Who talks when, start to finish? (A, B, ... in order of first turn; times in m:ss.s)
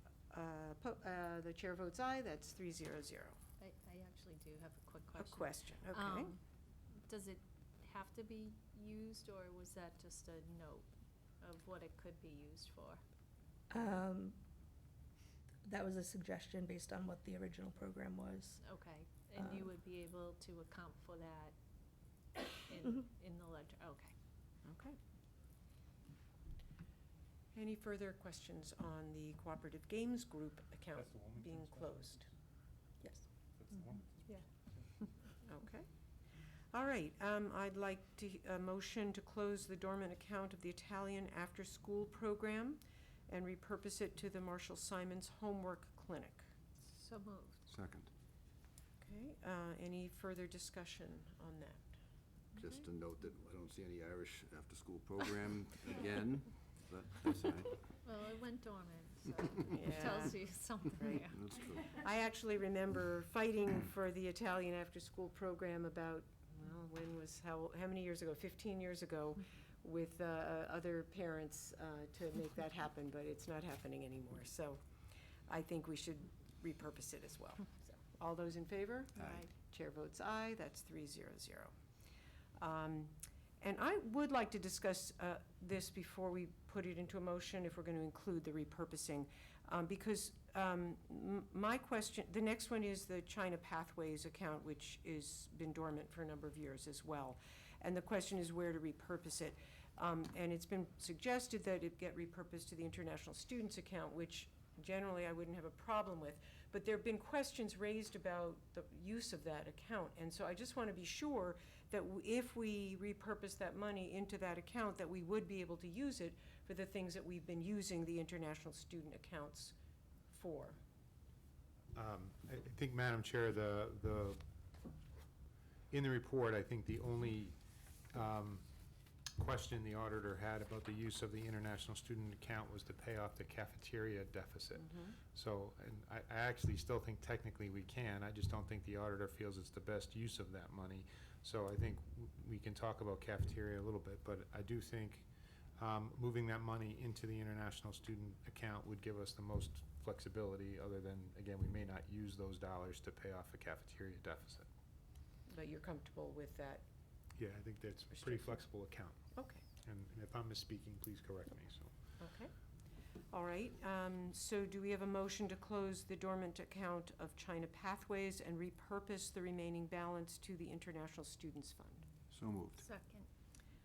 0:00.3-0:03.4 A
0:03.6-0:06.4 B
0:05.2-0:06.4 A
0:07.1-0:10.9 B
0:11.4-0:13.0 B
0:13.7-0:14.4 C
0:15.6-0:18.6 C
0:18.6-0:21.5 B
0:19.4-0:19.7 C
0:22.4-0:24.1 B
0:24.7-0:25.0 A
0:27.5-0:32.3 A
0:31.0-0:32.2 D
0:33.6-0:34.4 D
0:35.4-0:35.9 A
0:36.7-0:46.4 A
0:46.9-0:47.6 B
0:47.7-0:48.1 E
0:49.0-0:51.9 A
0:52.6-0:57.9 E
0:58.0-1:01.6 B
0:59.7-1:01.2 A
1:01.2-1:02.0 E
1:01.8-1:14.8 A
1:15.5-1:21.7 A
1:19.2-1:19.5 E
1:22.6-1:59.8 A
2:00.3-2:00.8 A
2:02.0-2:04.4 D
2:05.9-2:07.6 D
2:08.1-2:08.7 D
2:09.4-2:34.7 D
2:14.8-2:15.2 A
2:35.5-2:36.8 A
2:37.4-2:41.9 D
2:38.2-2:38.5 A
2:39.4-2:39.6 A
2:42.2-2:42.5 A
2:43.3-2:52.1 A
2:52.3-2:52.8 E
2:52.8-2:53.3 B